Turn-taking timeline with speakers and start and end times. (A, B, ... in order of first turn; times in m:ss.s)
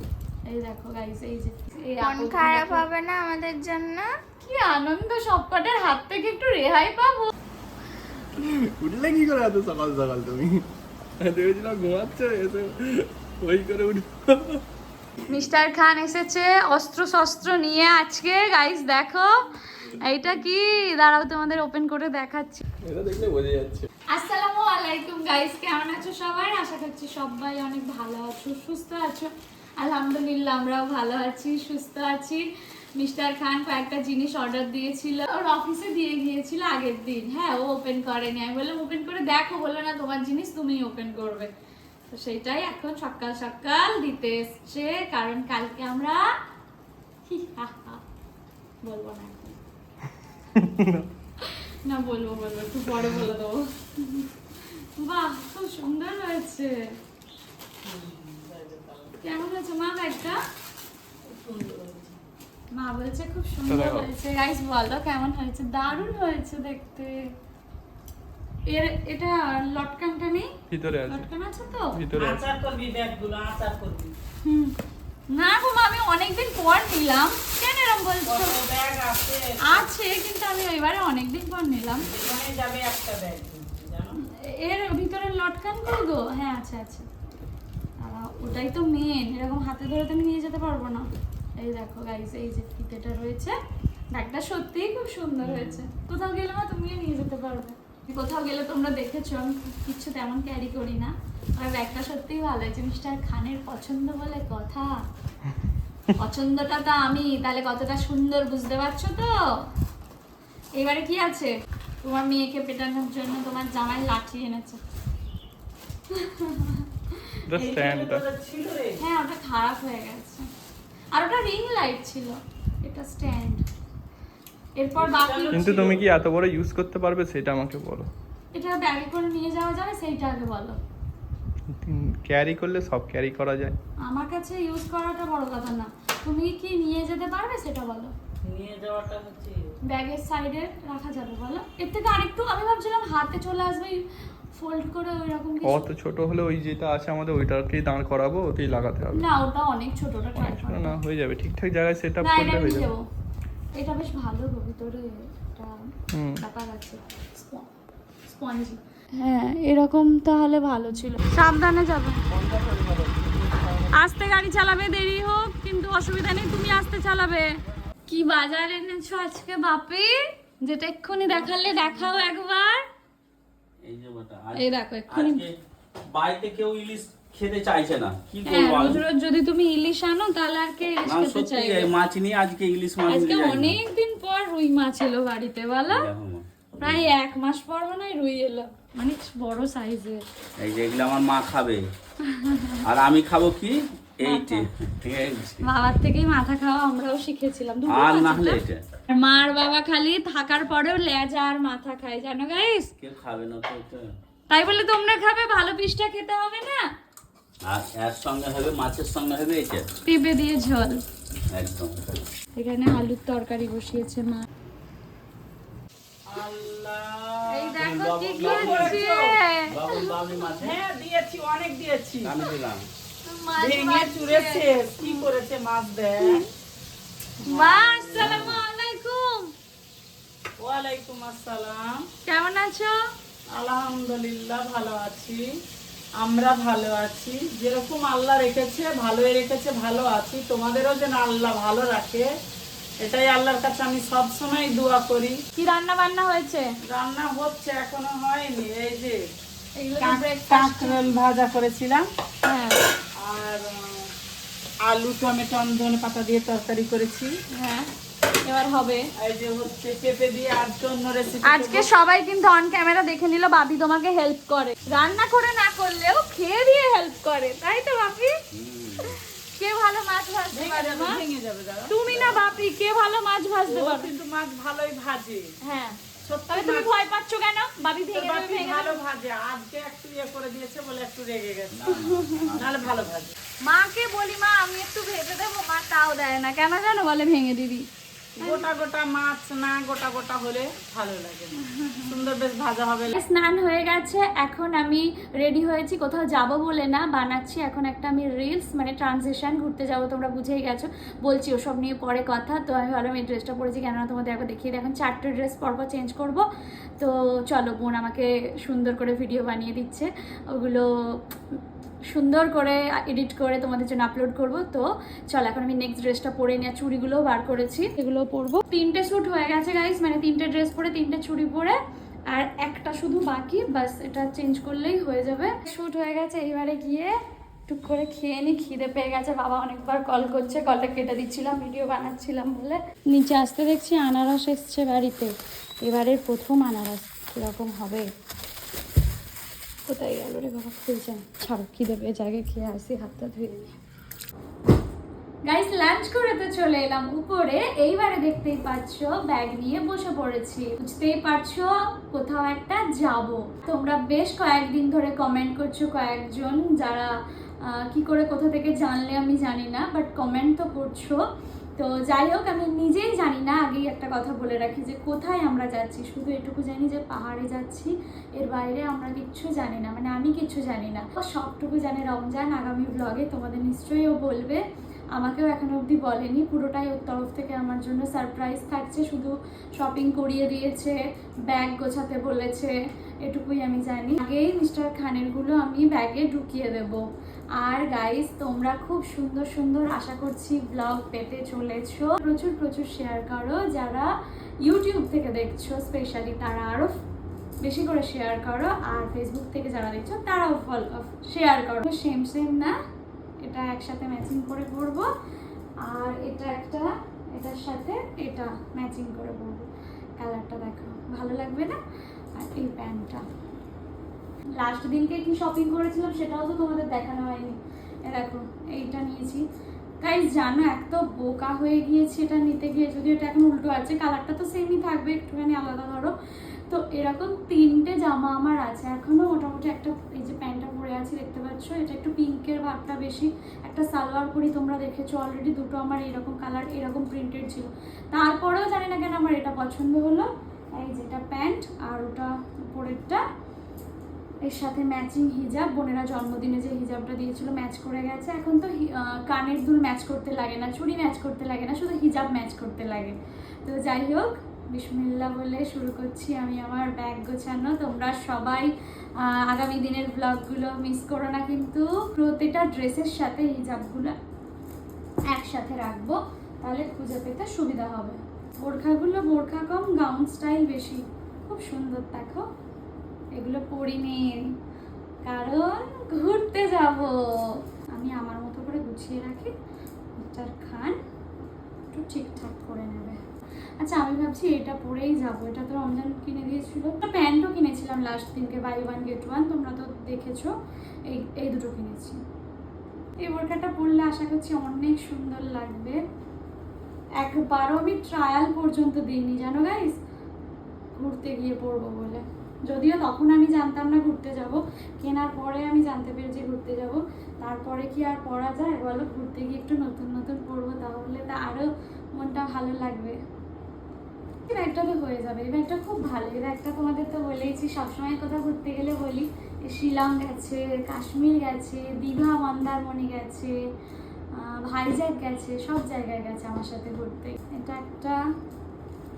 0:00.5-0:02.9 A
0:02.0-0:04.1 B
0:04.4-0:07.3 A
0:08.4-0:10.6 C
0:11.2-0:14.5 C
0:15.3-0:19.3 A
0:19.8-0:22.6 A
0:22.8-0:23.9 C
0:24.1-0:32.4 A
0:33.0-0:41.5 A
0:42.1-0:46.3 A
0:47.3-0:48.0 A
0:48.8-0:49.6 A
0:50.6-0:50.9 C
0:51.4-0:54.3 A
0:55.0-0:57.0 A
0:57.8-0:59.2 D
0:59.2-1:00.4 A
1:01.2-1:02.2 D
1:02.7-1:07.2 A
1:03.7-1:04.1 C
1:08.7-1:10.5 A
1:10.7-1:11.3 C
1:11.1-1:12.0 A
1:11.9-1:12.4 C
1:12.2-1:14.1 D
1:14.4-1:14.8 A
1:15.3-1:18.6 A
1:18.2-1:19.9 D
1:19.7-1:22.1 A
1:22.0-1:24.2 D
1:24.4-1:27.1 A
1:28.0-1:33.6 A
1:34.1-1:45.0 A
1:35.4-1:35.8 D
1:46.1-1:49.4 A
1:50.8-1:54.8 A
1:56.1-1:57.8 A
1:57.5-1:58.2 C
1:57.6-1:59.0 D
1:59.0-2:00.5 A
2:01.1-2:03.6 A
2:04.8-2:05.8 A
2:05.0-2:06.1 D
2:05.5-2:08.1 C
2:08.5-2:10.8 A
2:11.8-2:13.8 C
2:14.0-2:18.1 A
2:18.4-2:19.6 D
2:19.9-2:25.9 A
2:25.6-2:29.3 C
2:29.1-2:31.0 A
2:30.4-2:32.9 C
2:32.2-2:33.0 A
2:33.7-2:35.8 A
2:36.1-2:36.4 C
2:36.3-2:37.7 A
2:38.3-2:42.2 A
2:42.3-2:43.8 D
2:43.9-2:47.5 A
2:48.1-2:52.8 A
2:53.8-2:55.5 E
2:54.6-2:55.4 A
2:56.0-2:59.0 E
2:58.4-3:01.9 A
3:01.0-3:03.8 E
3:03.1-3:06.1 A
3:05.9-3:07.1 E
3:06.8-3:10.2 A
3:10.6-3:11.8 E
3:12.2-3:12.8 A
3:12.8-3:15.7 E
3:14.2-3:14.7 A
3:15.6-3:22.9 A
3:17.9-3:18.8 E
3:23.0-3:24.1 E
3:24.5-3:26.8 A
3:27.6-3:29.9 E
3:30.0-3:31.0 A
3:31.5-3:32.0 E
3:32.6-3:34.5 A
3:36.3-3:37.8 D
3:37.5-3:40.2 A
3:37.8-3:39.0 E
3:38.3-3:39.3 D
3:39.7-3:40.8 E
3:40.6-3:42.4 D
3:42.2-3:42.9 E
3:43.2-3:45.2 A
3:43.6-3:46.4 D
3:46.2-3:46.5 A
3:47.4-3:49.5 A
3:47.4-3:48.2 D
3:48.2-3:48.6 E
3:50.6-3:52.0 D
3:52.2-3:53.0 A
3:53.5-3:55.5 D
3:56.2-4:02.3 D
4:03.0-4:05.4 D
4:05.6-4:06.7 A
4:06.8-4:09.2 D
4:09.8-4:11.0 A
4:10.0-4:12.0 D
4:12.4-4:12.9 A
4:13.2-4:14.1 D
4:14.8-4:17.4 D
4:17.5-4:17.9 A
4:18.4-4:19.0 A
4:19.2-4:21.9 D
4:21.4-4:28.3 A
4:28.5-4:29.1 E
4:29.0-4:31.2 A
4:30.5-4:32.6 D
4:31.9-4:34.1 A
4:33.7-4:35.5 D
4:35.6-4:36.0 A
4:36.2-4:36.9 D
4:36.5-4:39.0 A
4:38.1-4:41.8 D
4:41.7-4:43.1 E
4:41.9-4:42.5 A
4:42.6-4:43.4 D
4:43.6-4:47.9 A
4:48.4-4:51.6 D
4:48.4-4:48.6 A
4:51.7-4:52.1 A
4:52.1-4:53.1 D
4:53.1-5:06.5 A
5:07.0-5:11.6 A
5:12.1-5:21.8 A
5:22.3-5:27.1 A
5:27.7-5:38.1 A
5:39.9-5:43.7 A
5:45.4-6:01.2 A
6:01.8-6:14.6 A
6:15.1-6:27.0 A
6:27.6-6:34.1 A
6:34.6-6:36.9 A
6:37.6-6:42.8 A
6:43.4-6:45.1 A
6:45.8-6:51.8 A
6:52.4-6:53.2 A
6:54.6-6:59.4 A
7:00.0-7:06.1 A
7:06.7-7:23.2 A
7:24.4-7:38.7 A
7:39.2-7:44.1 A
7:45.3-7:52.5 A
7:53.4-7:54.4 A
7:55.2-7:59.5 A
8:00.2-8:01.0 A
8:01.9-8:03.2 A
8:03.8-8:10.5 A
8:11.1-8:12.2 A
8:13.2-8:16.0 A
8:17.2-8:20.0 A
8:20.9-8:33.2 A
8:34.5-8:43.6 A
8:44.3-8:48.2 A